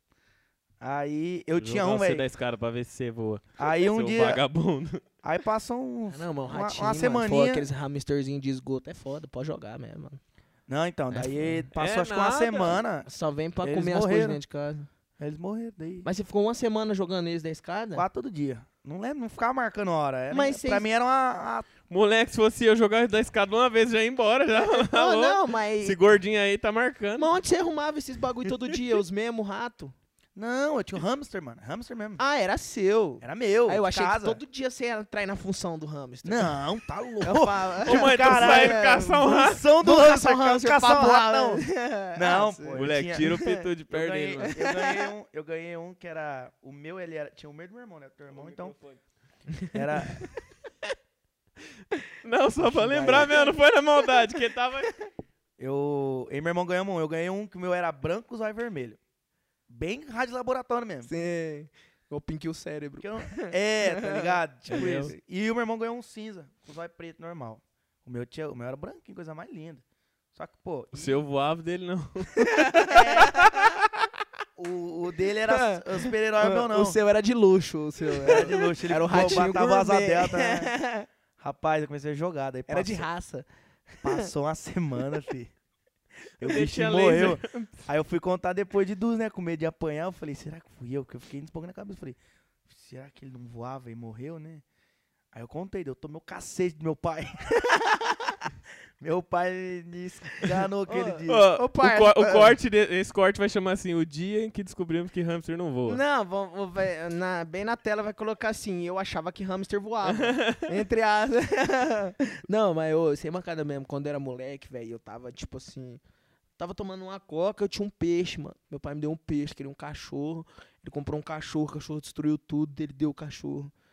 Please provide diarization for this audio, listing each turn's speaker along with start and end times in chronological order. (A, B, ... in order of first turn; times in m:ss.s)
0:00.8-0:02.3 A
0:01.6-0:05.0 B
0:03.6-0:04.4 A
0:05.2-0:07.7 A
0:06.1-0:10.2 C
0:10.7-0:13.1 A
0:11.1-0:11.7 C
0:11.8-0:12.8 B
0:13.0-0:14.9 C
0:13.6-0:14.4 A
0:15.2-0:16.1 A
0:16.0-0:18.1 C
0:18.0-0:21.7 A
0:20.3-0:20.9 C
0:21.9-0:27.3 B
0:24.5-0:26.0 C
0:27.2-0:30.0 C
0:28.5-0:28.8 B
0:30.4-0:32.2 A
0:32.2-0:36.6 C
0:33.2-0:34.4 A
0:36.2-0:43.3 A
0:37.2-0:39.3 C
0:37.8-0:39.6 B
0:39.8-0:43.7 C
0:42.8-0:44.6 B
0:43.9-0:48.8 A
0:44.4-0:45.1 C
0:48.3-0:49.0 B
0:49.5-0:50.4 C
0:49.7-0:50.3 A
0:52.2-0:54.9 B
0:52.6-0:53.4 A
0:52.9-0:53.6 C
0:55.6-0:59.0 A
0:59.7-1:01.1 A
1:01.0-1:05.2 C
1:03.0-1:09.8 A
1:04.7-1:05.1 B
1:10.3-1:11.2 A
1:10.9-1:13.6 B
1:12.4-1:13.8 C
1:12.9-1:13.4 A
1:14.6-1:17.0 A
1:15.5-1:21.1 C
1:18.2-1:20.7 A
1:21.4-1:23.1 A
1:22.7-1:24.3 C
1:24.0-1:25.5 A
1:26.4-1:34.6 A
1:26.4-1:27.5 B
1:35.3-1:37.4 A
1:37.5-1:38.4 C
1:39.0-1:41.4 A
1:40.4-1:42.6 C
1:41.3-1:46.0 B
1:45.9-1:56.0 C
1:50.0-1:50.8 B
1:56.6-2:03.7 C